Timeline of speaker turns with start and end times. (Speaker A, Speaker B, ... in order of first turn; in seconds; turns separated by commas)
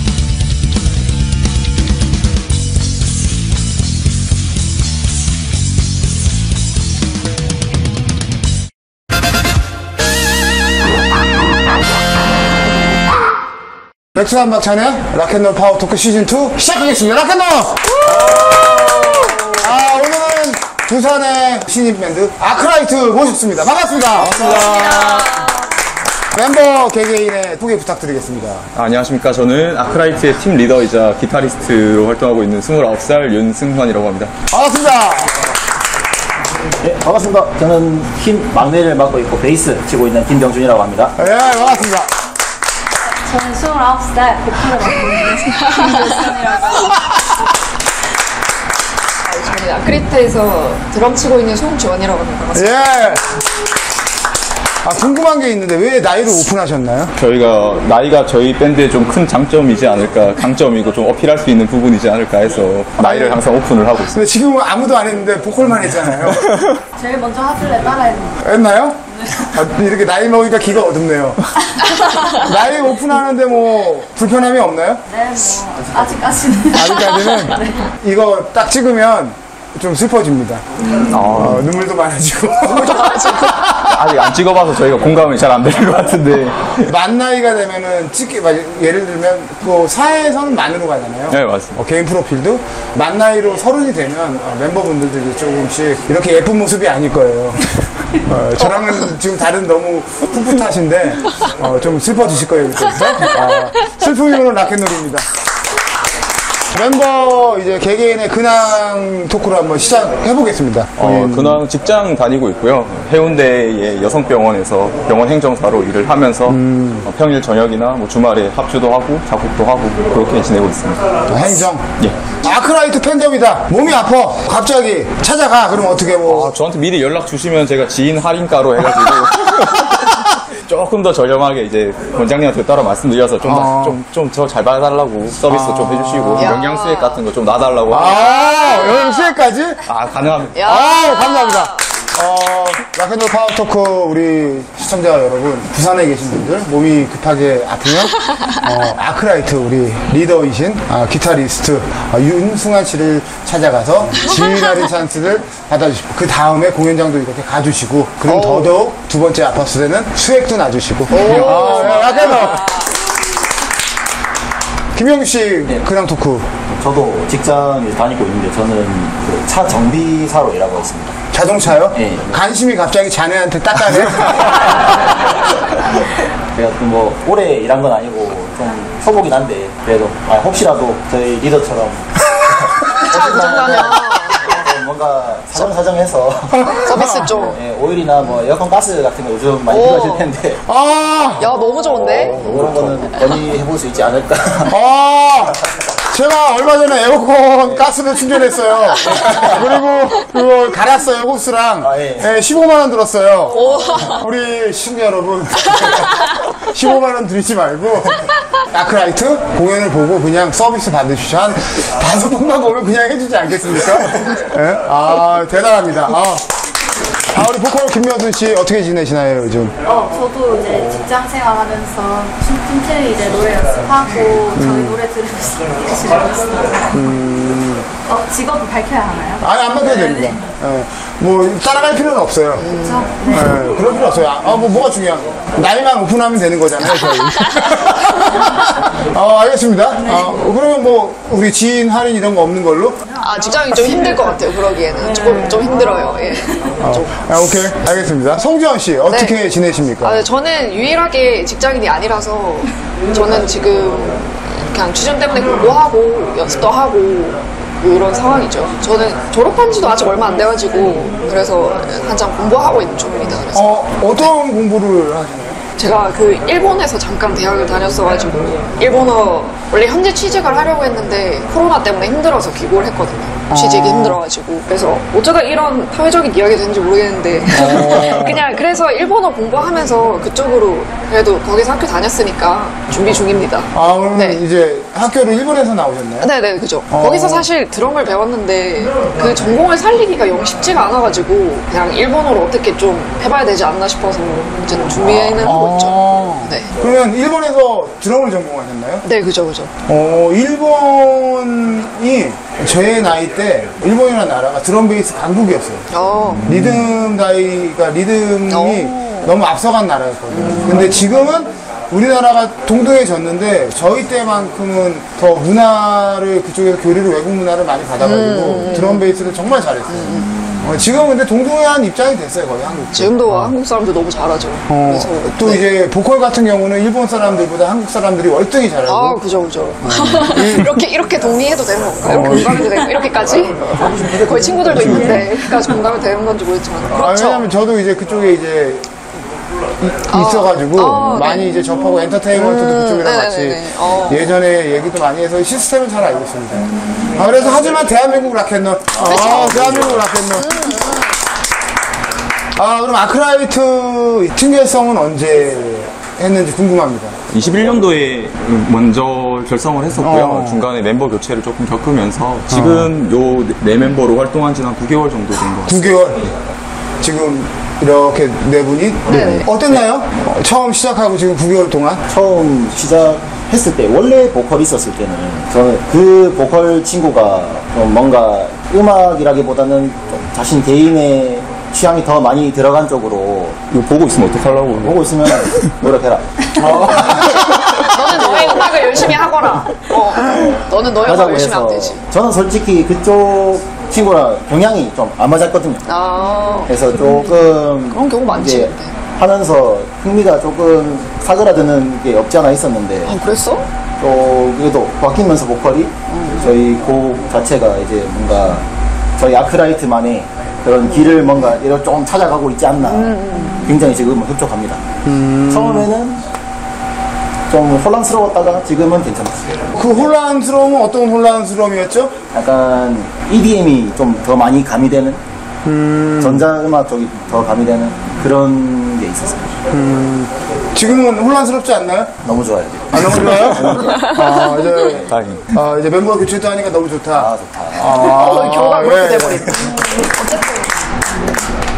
Speaker A: 14.1-18.8, Speaker B: 17.9-19.5, Speaker A: 19.4-25.3, Speaker B: 24.2-25.6, Speaker A: 26.3-28.7, Speaker C: 28.7-34.3, Speaker A: 34.5-35.3, Speaker D: 36.8-41.2, Speaker A: 41.2-42.1, Speaker E: 43.2-46.9, Speaker B: 45.5-46.2, Speaker B: 49.2-53.2, Speaker A: 52.5-53.4, Speaker A: 54.8-57.1, Speaker C: 57.1-64.2, Speaker A: 63.0-63.4, Speaker A: 64.1-66.6, Speaker E: 66.9-68.5, Speaker A: 68.4-71.4, Speaker A: 72.3-75.0, Speaker E: 75.1-77.7, Speaker A: 76.7-80.6, Speaker C: 80.8-81.7, Speaker A: 81.2-84.1, Speaker B: 82.7-83.6, Speaker C: 83.7-86.9, Speaker A: 86.8-105.3, Speaker C: 91.3-91.8, Speaker A: 106.7-111.6, Speaker C: 111.0-122.2, Speaker A: 116.5-117.1, Speaker A: 121.3-121.8, Speaker A: 122.4-126.5, Speaker C: 126.2-138.3, Speaker A: 133.4-134.0, Speaker A: 135.5-136.6, Speaker B: 136.3-137.2, Speaker A: 137.9-139.8, Speaker B: 138.1-139.4, Speaker C: 139.8-140.6, Speaker B: 140.5-141.9, Speaker A: 140.6-162.7, Speaker B: 158.3-158.7, Speaker B: 161.1-162.9, Speaker A: 164.9-166.5, Speaker D: 166.7-171.2, Speaker A: 171.3-174.6, Speaker D: 171.9-172.4, Speaker D: 176.5-186.8, Speaker B: 182.8-184.6, Speaker A: 186.5-187.3, Speaker B: 186.7-187.6, Speaker D: 187.4-190.6, Speaker B: 189.7-190.3, Speaker A: 190.6-191.6, Speaker B: 191.4-192.4, Speaker D: 192.0-194.8, Speaker C: 192.1-193.1, Speaker A: 194.7-216.4, Speaker D: 199.1-199.7, Speaker D: 201.8-202.3, Speaker B: 203.5-204.2, Speaker A: 217.3-219.7, Speaker E: 219.8-227.2, Speaker A: 224.5-225.0, Speaker A: 226.9-227.9, Speaker E: 228.0-230.4, Speaker A: 229.4-232.7, Speaker B: 232.6-233.2, Speaker E: 233.0-233.6, Speaker A: 233.2-243.1, Speaker E: 240.0-240.4, Speaker E: 243.1-244.1, Speaker B: 243.2-247.2, Speaker E: 245.0-246.6, Speaker A: 246.8-250.2, Speaker B: 249.1-249.3, Speaker B: 250.0-264.2, Speaker A: 263.5-265.6, Speaker B: 265.8-284.4, Speaker A: 273.5-274.2, Speaker A: 277.5-278.4, Speaker A: 283.7-286.3, Speaker B: 286.2-296.7, Speaker A: 286.9-287.5, Speaker A: 295.4-299.0, Speaker B: 299.0-299.7, Speaker A: 299.9-305.9, Speaker B: 305.9-306.5, Speaker A: 306.4-323.5, Speaker B: 308.5-309.3, Speaker B: 310.3-311.0, Speaker B: 318.0-319.1, Speaker B: 319.9-320.5, Speaker B: 322.9-325.6, Speaker A: 324.7-329.2, Speaker B: 328.9-337.5, Speaker A: 329.8-330.8, Speaker A: 332.1-332.8, Speaker D: 333.7-335.3, Speaker C: 334.8-335.0, Speaker A: 336.9-338.9, Speaker A: 339.8-350.7, Speaker B: 340.1-344.3, Speaker B: 348.9-349.6, Speaker C: 349.6-349.9, Speaker B: 350.4-351.1, Speaker A: 352.6-357.1, Speaker C: 357.3-366.0, Speaker A: 360.0-360.6, Speaker A: 362.5-362.9, Speaker A: 365.6-366.3, Speaker A: 367.0-372.0, Speaker B: 369.1-369.5, Speaker D: 372.1-383.6, Speaker C: 383.7-385.7, Speaker D: 384.8-389.2, Speaker A: 386.8-387.1, Speaker B: 387.8-392.0, Speaker D: 390.2-395.9, Speaker B: 395.9-396.8, Speaker D: 396.6-403.2, Speaker E: 396.9-397.6, Speaker B: 397.7-399.0, Speaker B: 403.1-403.7, Speaker D: 404.0-408.6, Speaker B: 406.1-406.5, Speaker D: 409.2-414.9, Speaker B: 412.8-413.7, Speaker A: 415.0-415.9, Speaker D: 415.5-416.2, Speaker D: 417.5-420.1, Speaker A: 419.7-422.1, Speaker D: 422.3-425.2, Speaker A: 425.6-426.5, Speaker D: 426.2-429.5, Speaker A: 429.7-432.2, Speaker D: 432.2-433.9, Speaker A: 432.9-439.6, Speaker C: 434.9-435.5, Speaker D: 437.1-438.4, Speaker B: 437.9-440.7